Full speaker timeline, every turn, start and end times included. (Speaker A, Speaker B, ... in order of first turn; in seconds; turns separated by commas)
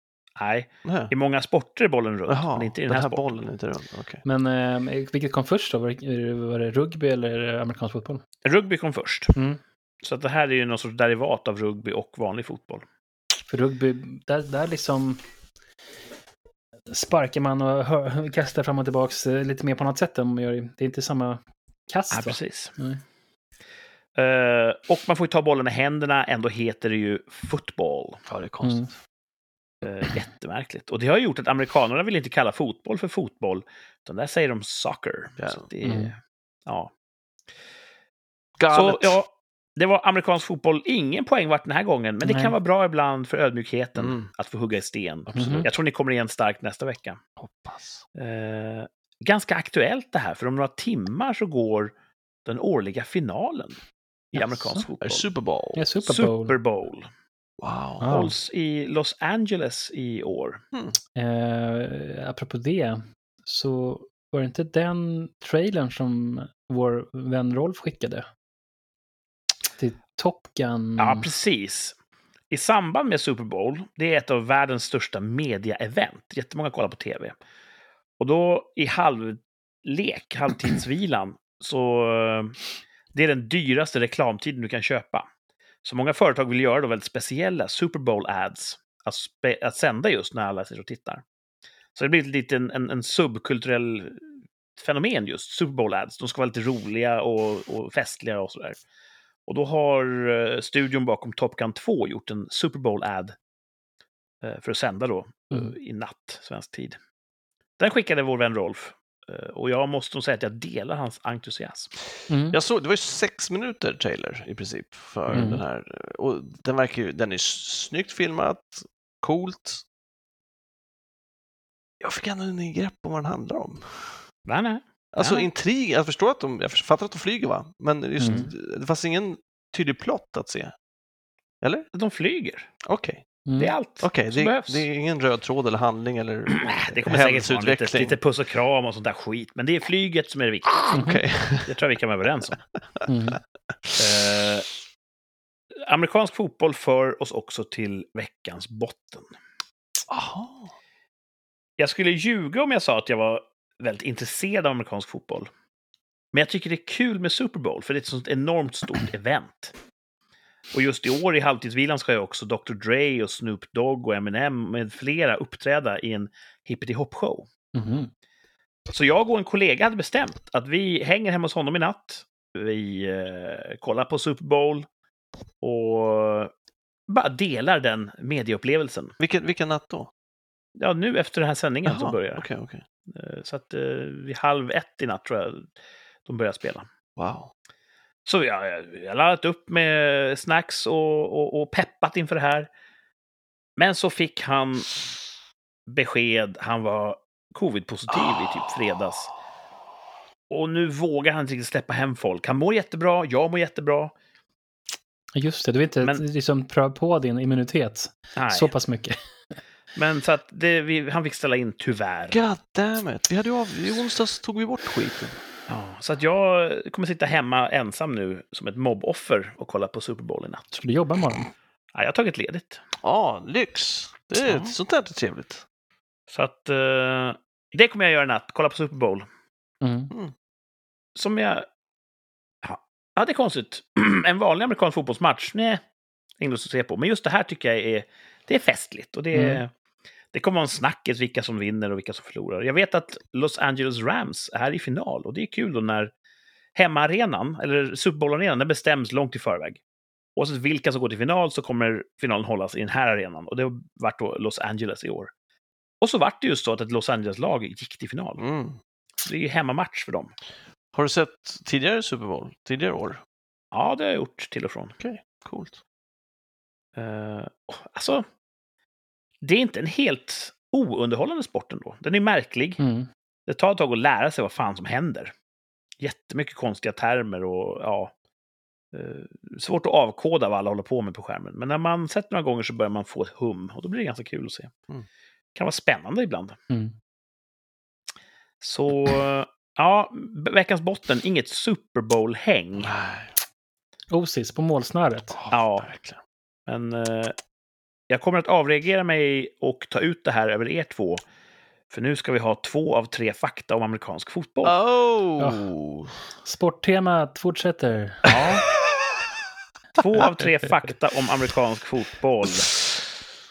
Speaker A: 0.4-3.4, Speaker B: 0.8-1.1, Speaker B: 2.3-4.2, Speaker C: 4.2-8.2, Speaker A: 8.4-9.3, Speaker C: 9.3-9.6, Speaker A: 10.0-12.8, Speaker C: 13.5-15.2, Speaker C: 16.9-23.0, Speaker A: 22.1-22.7, Speaker A: 24.1-28.2, Speaker B: 28.2-28.9, Speaker C: 28.6-28.9, Speaker A: 29.8-36.9, Speaker B: 35.4-35.6, Speaker C: 35.8-36.1, Speaker B: 38.6-39.2, Speaker A: 38.7-47.2, Speaker C: 42.2-42.5, Speaker B: 44.0-44.3, Speaker B: 45.3-45.7, Speaker C: 45.3-45.7, Speaker B: 47.4-48.0, Speaker A: 48.1-51.9, Speaker A: 52.5-53.8, Speaker A: 54.3-55.3, Speaker B: 55.0-55.8, Speaker C: 55.8-56.6, Speaker A: 56.0-57.1, Speaker B: 57.6-58.2, Speaker C: 58.0-58.3, Speaker A: 58.0-60.6, Speaker C: 61.1-68.2, Speaker C: 69.8-71.3, Speaker A: 71.0-71.9, Speaker A: 72.5-77.3, Speaker A: 78.2-82.6, Speaker A: 83.1-85.3, Speaker A: 85.8-91.2, Speaker A: 91.9-98.8, Speaker A: 99.5-103.3, Speaker A: 104.4-107.0, Speaker A: 107.8-111.9, Speaker C: 112.3-112.6, Speaker B: 112.5-119.8, Speaker C: 115.3-115.6, Speaker B: 122.0-124.2, Speaker A: 124.5-125.5, Speaker B: 125.1-130.7, Speaker C: 128.2-128.5, Speaker B: 131.6-131.9, Speaker A: 131.9-132.7, Speaker B: 132.8-133.2, Speaker C: 133.4-133.7, Speaker A: 133.6-134.8, Speaker B: 134.0-138.2, Speaker A: 136.5-141.0, Speaker B: 140.9-141.8, Speaker C: 140.9-141.2, Speaker A: 141.6-142.6, Speaker C: 143.1-143.4, Speaker A: 144.0-144.7, Speaker A: 145.8-149.3, Speaker B: 150.1-150.7, Speaker A: 151.8-155.5, Speaker A: 156.3-159.7, Speaker A: 160.7-167.5, Speaker C: 167.7-168.1, Speaker A: 168.9-174.8, Speaker A: 175.6-176.5, Speaker A: 177.1-179.1, Speaker B: 179.2-180.1, Speaker A: 180.8-182.5, Speaker B: 181.8-182.8, Speaker A: 183.1-185.7, Speaker A: 186.2-186.9, Speaker B: 187.2-187.5, Speaker A: 188.2-192.7, Speaker A: 193.8-194.9, Speaker A: 195.9-199.3, Speaker A: 200.5-204.1, Speaker C: 205.3-209.2, Speaker A: 208.3-208.7, Speaker A: 209.9-212.4, Speaker B: 212.3-215.4, Speaker A: 215.7-220.7, Speaker C: 220.7-221.5, Speaker A: 221.9-222.8, Speaker B: 223.0-225.6, Speaker A: 224.4-224.7, Speaker A: 226.3-229.2, Speaker C: 229.8-230.1, Speaker A: 231.2-231.7, Speaker A: 232.6-235.8, Speaker A: 236.4-239.7, Speaker C: 239.3-239.6, Speaker A: 240.3-246.1, Speaker A: 246.8-249.8, Speaker A: 250.3-255.3, Speaker A: 256.0-258.4, Speaker B: 258.4-258.8, Speaker A: 259.2-260.3, Speaker B: 260.9-263.2, Speaker A: 263.7-264.9, Speaker B: 265.0-265.8, Speaker A: 266.9-268.2, Speaker A: 269.4-272.8, Speaker C: 272.8-273.1, Speaker A: 273.5-275.3, Speaker A: 276.0-278.1, Speaker A: 278.9-284.7, Speaker A: 285.5-286.6, Speaker A: 288.6-292.9, Speaker B: 292.8-293.3, Speaker C: 294.1-295.4, Speaker B: 295.3-296.2, Speaker A: 295.5-295.9, Speaker A: 296.7-297.3, Speaker A: 298.1-301.2, Speaker A: 301.9-304.8, Speaker B: 304.6-306.1, Speaker C: 305.4-305.6, Speaker C: 306.4-308.3, Speaker A: 308.2-308.6, Speaker A: 309.9-312.7